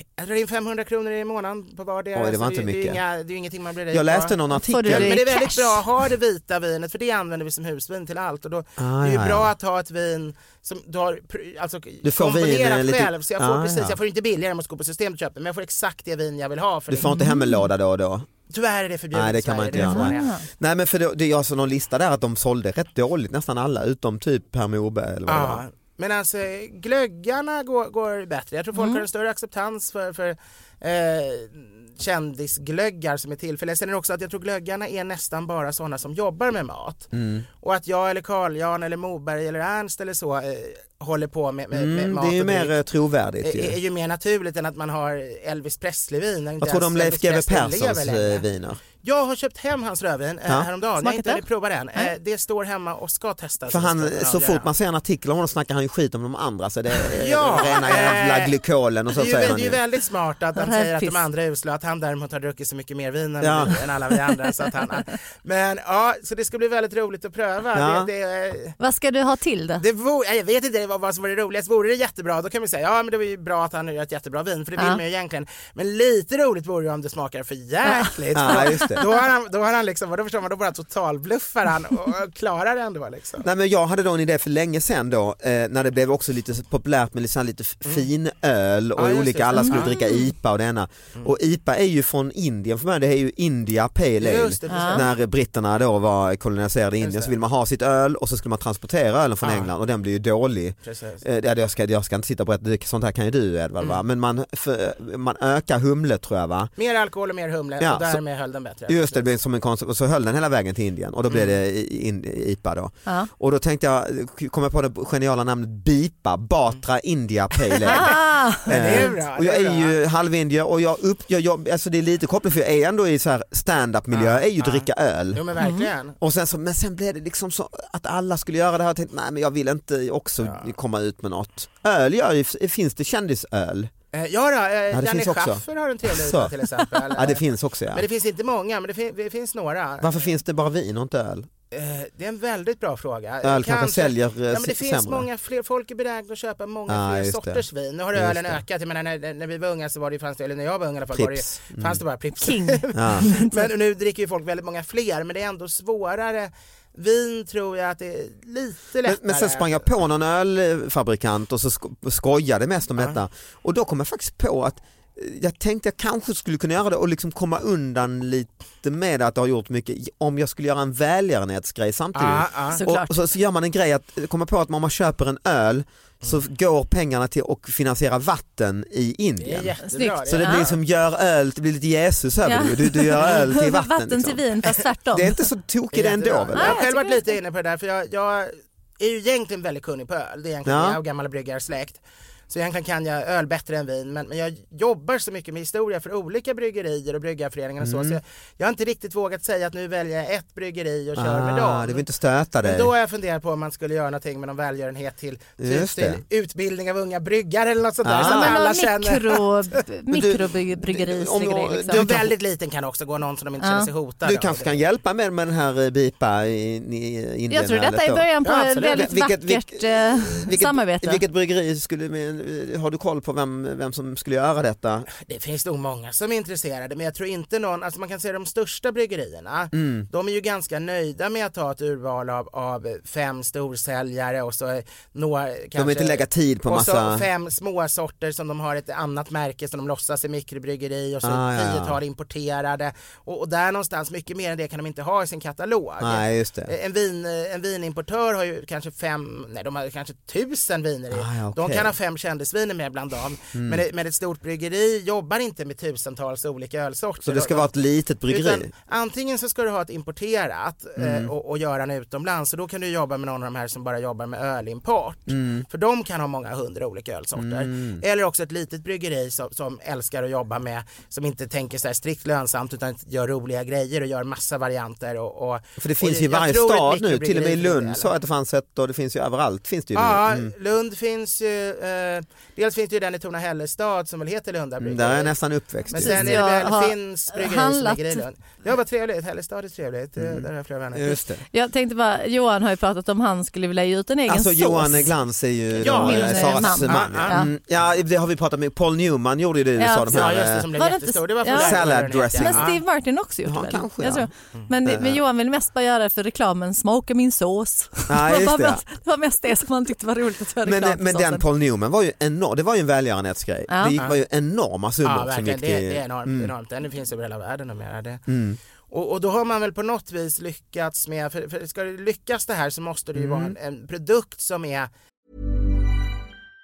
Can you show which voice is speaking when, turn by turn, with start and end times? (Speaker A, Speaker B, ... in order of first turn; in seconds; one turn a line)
Speaker A: 0.2-17.1
Speaker B: 2.1-3.0
Speaker B: 3.9-5.2
Speaker C: 4.5-5.8
Speaker B: 8.8-9.5
Speaker B: 12.0-14.0
Speaker B: 16.9-18.3
Speaker C: 17.0-17.7
Speaker A: 18.5-20.3
Speaker B: 19.1-25.6
Speaker C: 19.7-20.5
Speaker A: 25.2-37.1
Speaker C: 28.7-29.0
Speaker B: 37.1-37.5
Speaker A: 37.6-42.7
Speaker B: 41.7-43.8
Speaker A: 43.4-54.7
Speaker B: 46.6-48.8
Speaker C: 51.0-51.4
Speaker B: 53.7-59.8
Speaker A: 57.1-58.5
Speaker A: 59.1-68.8
Speaker C: 60.5-61.2
Speaker B: 63.4-63.8
Speaker B: 67.7-68.1
Speaker C: 68.8-69.8
Speaker A: 69.8-83.5
Speaker C: 77.8-79.1
Speaker B: 78.3-79.0
Speaker B: 83.4-106.7
Speaker A: 89.0-89.9
Speaker C: 89.5-90.3
Speaker A: 94.2-95.1
Speaker C: 94.7-95.0
Speaker A: 97.0-97.3
Speaker A: 99.4-99.7
Speaker A: 100.8-101.2
Speaker A: 106.8-109.2
Speaker B: 107.8-108.2
Speaker B: 108.8-125.4
Speaker C: 117.9-119.1
Speaker A: 118.7-119.9
Speaker A: 124.1-126.2
Speaker C: 125.6-125.9
Speaker B: 126.2-133.9
Speaker A: 130.4-130.7
Speaker A: 134.1-137.4
Speaker B: 134.9-136.5
Speaker B: 137.1-138.0
Speaker A: 137.9-140.1
Speaker B: 140.0-141.5
Speaker A: 141.7-159.8
Speaker B: 143.4-145.3
Speaker B: 146.9-148.6
Speaker B: 151.1-152.0
Speaker C: 152.4-153.7
Speaker B: 152.9-153.3
Speaker B: 159.1-179.7
Speaker A: 172.1-172.8
Speaker C: 172.7-173.1
Speaker A: 179.4-180.8
Speaker C: 179.9-180.7
Speaker B: 180.2-184.4
Speaker C: 182.4-185.4
Speaker B: 185.1-186.8
Speaker A: 185.9-202.0
Speaker C: 186.5-187.3
Speaker B: 190.6-191.0
Speaker B: 197.8-198.2
Speaker B: 201.1-202.9
Speaker A: 202.6-209.4
Speaker B: 205.6-206.2
Speaker B: 208.0-208.6
Speaker C: 208.2-212.1
Speaker B: 210.1-212.3
Speaker A: 211.9-214.8
Speaker C: 213.6-213.9
Speaker B: 214.2-225.1
Speaker C: 217.5-221.2
Speaker A: 218.4-219.0
Speaker A: 225.2-257.7
Speaker B: 229.7-230.1
Speaker B: 235.7-237.3
Speaker B: 241.2-242.0
Speaker B: 246.0-246.7
Speaker B: 251.1-251.9
Speaker B: 253.5-253.8
Speaker B: 257.2-258.7
Speaker A: 258.3-278.1
Speaker B: 261.0-261.3
Speaker B: 265.3-265.7
Speaker B: 267.4-268.0
Speaker B: 275.8-280.5
Speaker A: 279.9-285.3
Speaker B: 284.8-286.5
Speaker A: 285.9-291.2
Speaker C: 285.9-288.2
Speaker B: 290.2-291.4
Speaker C: 291.5-295.1
Speaker B: 294.3-300.9
Speaker A: 295.8-297.4
Speaker C: 295.9-297.5
Speaker C: 299.8-311.4
Speaker A: 300.1-302.8
Speaker B: 301.4-302.8
Speaker B: 303.4-304.3
Speaker B: 304.8-305.2
Speaker B: 308.1-308.8
Speaker B: 310.6-316.5
Speaker C: 313.7-314.0
Speaker A: 315.0-318.2
Speaker B: 318.3-318.6
Speaker A: 318.9-324.9
Speaker B: 323.1-323.5